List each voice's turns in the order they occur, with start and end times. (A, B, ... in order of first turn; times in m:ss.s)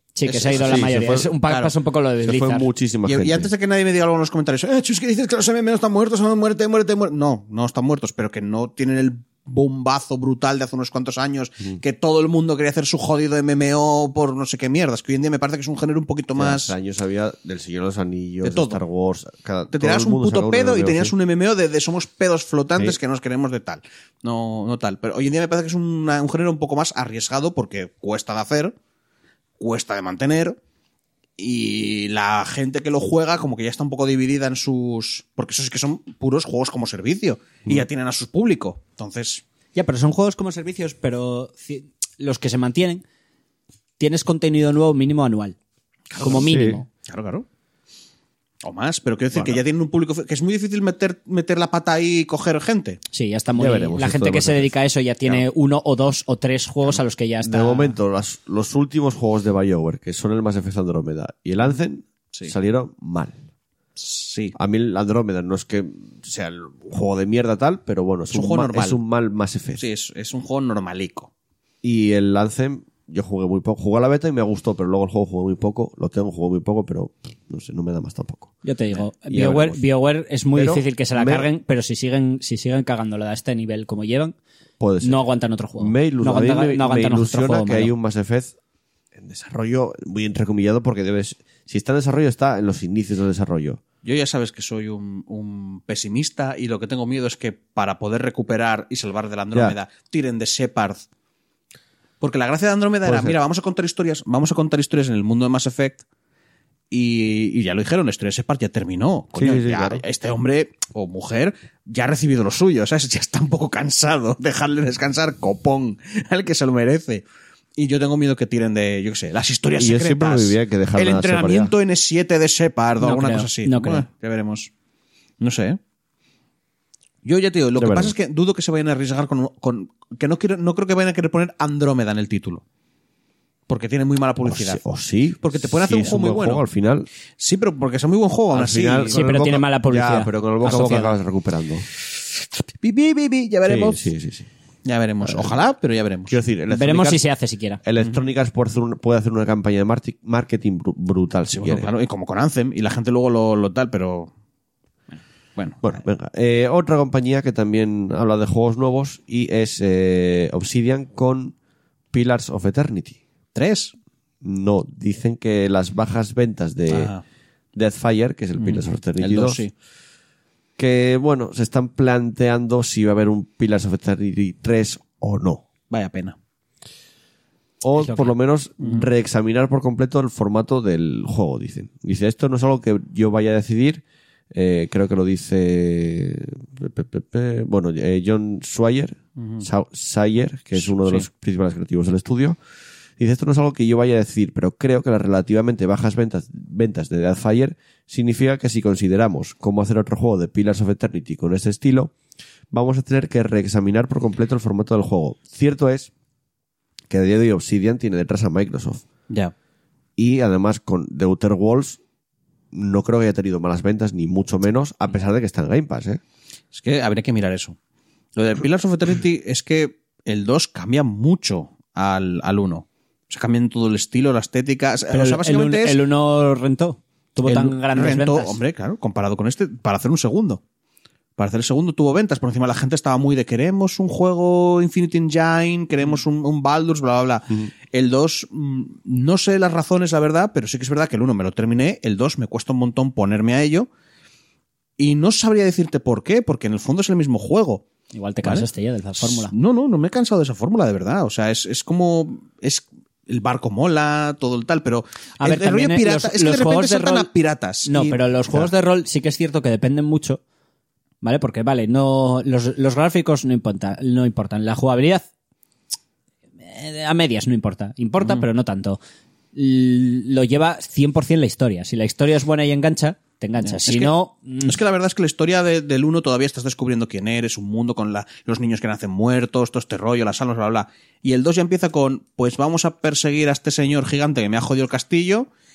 0:00.2-0:02.7 A
0:00.2-0:01.7 B
0:00.5-0:01.3 C
0:02.2-0:03.5 C
0:03.0-0:16.7 B
0:16.4-0:21.1 C
0:18.4-0:18.8 B
0:19.7-0:28.8 B
0:29.6-0:30.6 B
0:31.4-0:39.4 B
0:39.7-0:43.0 A
0:44.0-0:45.6 A
0:46.1-0:47.4 B
0:46.2-0:46.9 A
0:46.2-0:46.8 C
0:48.6-0:53.0 B
0:49.3-0:49.6 C
0:53.1-0:57.9 A
0:53.6-0:54.7 C
0:57.4-1:03.4 C
1:04.0-1:04.6 B
1:04.5-1:09.8 C
1:08.3-1:09.0 B
1:09.8-1:11.3 B
1:11.8-1:18.6 C
1:18.6-1:24.3 A
1:19.3-1:19.8 C
1:20.5-1:21.5 C
1:24.8-1:25.2 C
1:25.0-1:27.9 A
1:25.8-1:28.5 C
1:29.2-1:33.8 C
1:34.0-1:41.0 B
1:42.2-1:46.0 B
1:43.0-1:43.4 C
1:46.9-1:57.2 B
1:49.3-1:50.0 C
1:57.8-2:04.7 B
1:59.8-2:01.7 C
2:03.0-2:04.0 A
2:05.4-2:05.8 B
2:07.2-2:12.6 B
2:07.8-2:08.1 C
2:13.7-2:14.8 B
2:14.4-2:17.1 C
2:15.4-2:16.6 B
2:17.4-2:19.2 B
2:18.5-2:21.8 C
2:19.1-2:21.1 A
2:22.8-2:24.1 B
2:23.6-2:24.5 C
2:24.8-2:26.4 B
2:25.2-2:25.6 C
2:26.3-2:27.2 C
2:26.7-2:27.8 A
2:27.8-2:31.9 C
2:31.5-2:34.3 B
2:35.6-2:35.9 B
2:35.8-2:41.5 C
2:42.1-2:43.2 C
2:43.5-2:43.9 B
2:44.4-2:47.1 C
2:46.9-2:47.2 B
2:47.7-2:49.6 C
2:48.6-2:49.7 B
2:50.8-2:55.6 C
2:55.9-2:56.4 B
2:57.8-3:12.6 C
2:58.0-2:58.3 A
2:58.8-2:59.1 B
3:09.4-3:09.6 B
3:10.8-3:11.2 B
3:13.2-3:22.1 C
3:22.7-3:26.1 C
3:27.1-3:29.0 C
3:30.2-3:32.0 C
3:32.7-3:36.2 C
3:36.7-3:37.8 B
3:38.4-3:46.0 B
3:45.1-3:48.6 A
3:47.4-3:50.6 B
3:51.4-4:03.9 B
4:05.0-4:07.8 B
4:08.1-4:09.5 A
4:09.2-4:18.2 B
4:15.4-4:17.3 A
4:17.8-4:20.4 A
4:21.2-4:25.3 A
4:26.6-4:29.0 A
4:29.5-4:34.8 A
4:33.6-4:34.1 B
4:34.6-4:45.5 B